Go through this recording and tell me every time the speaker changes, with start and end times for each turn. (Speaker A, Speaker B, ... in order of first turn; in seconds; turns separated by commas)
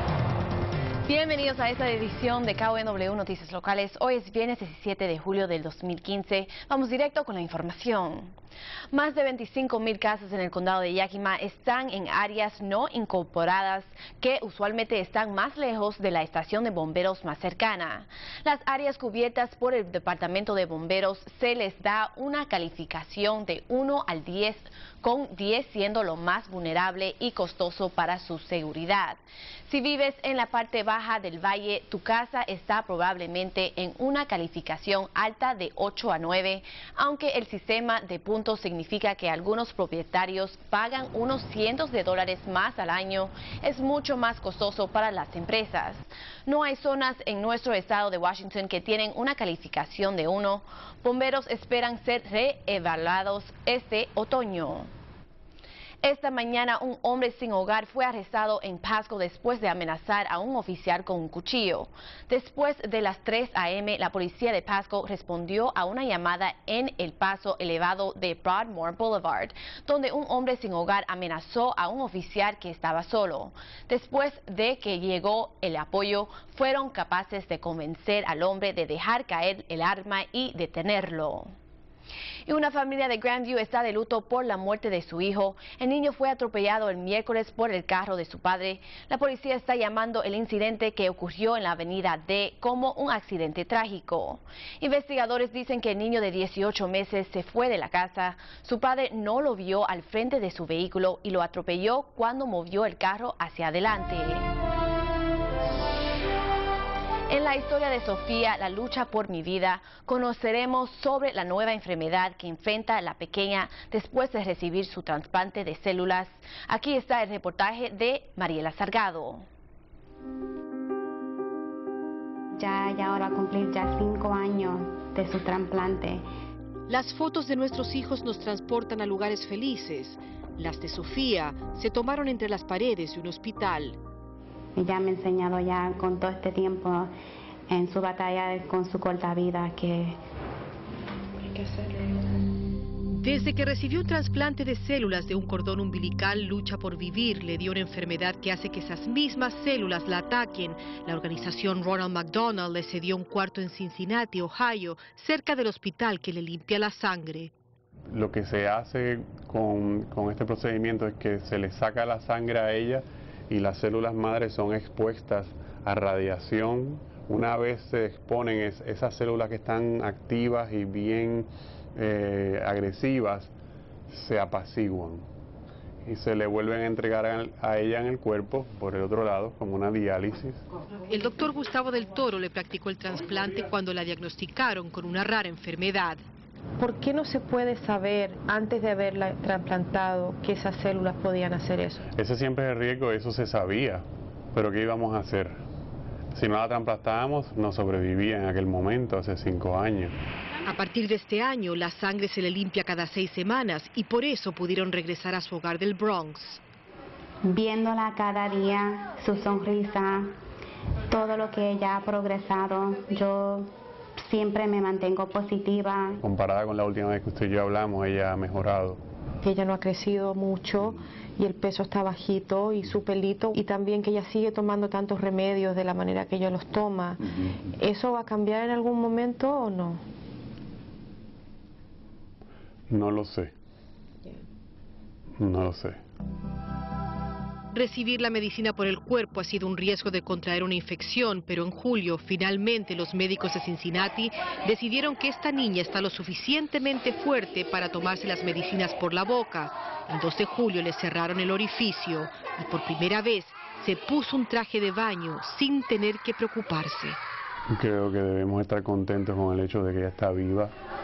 Speaker A: 1.1-8.3, Speaker A: 8.9-54.9, Speaker A: 56.0-81.5, Speaker A: 82.5-104.5, Speaker A: 107.3-119.5, Speaker B: 122.6-126.2, Speaker C: 126.9-134.0, Speaker B: 134.8-137.1, Speaker B: 137.7-140.2, Speaker D: 141.4-142.3, Speaker C: 143.1-157.5, Speaker E: 158.1-173.5, Speaker E: 174.1-175.2, Speaker E: 176.0-180.6, Speaker C: 181.1-186.2, Speaker D: 186.8-192.1, Speaker E: 192.2-195.6, Speaker E: 196.3-200.1, Speaker C: 200.6-206.6, Speaker B: 207.4-210.3, Speaker B: 211.1-216.2, Speaker E: 216.2-219.0, Speaker D: 219.4-230.0, Speaker E: 232.9-233.5, Speaker E: 235.4-236.0, Speaker C: 237.7-257.2, Speaker E: 257.7-260.7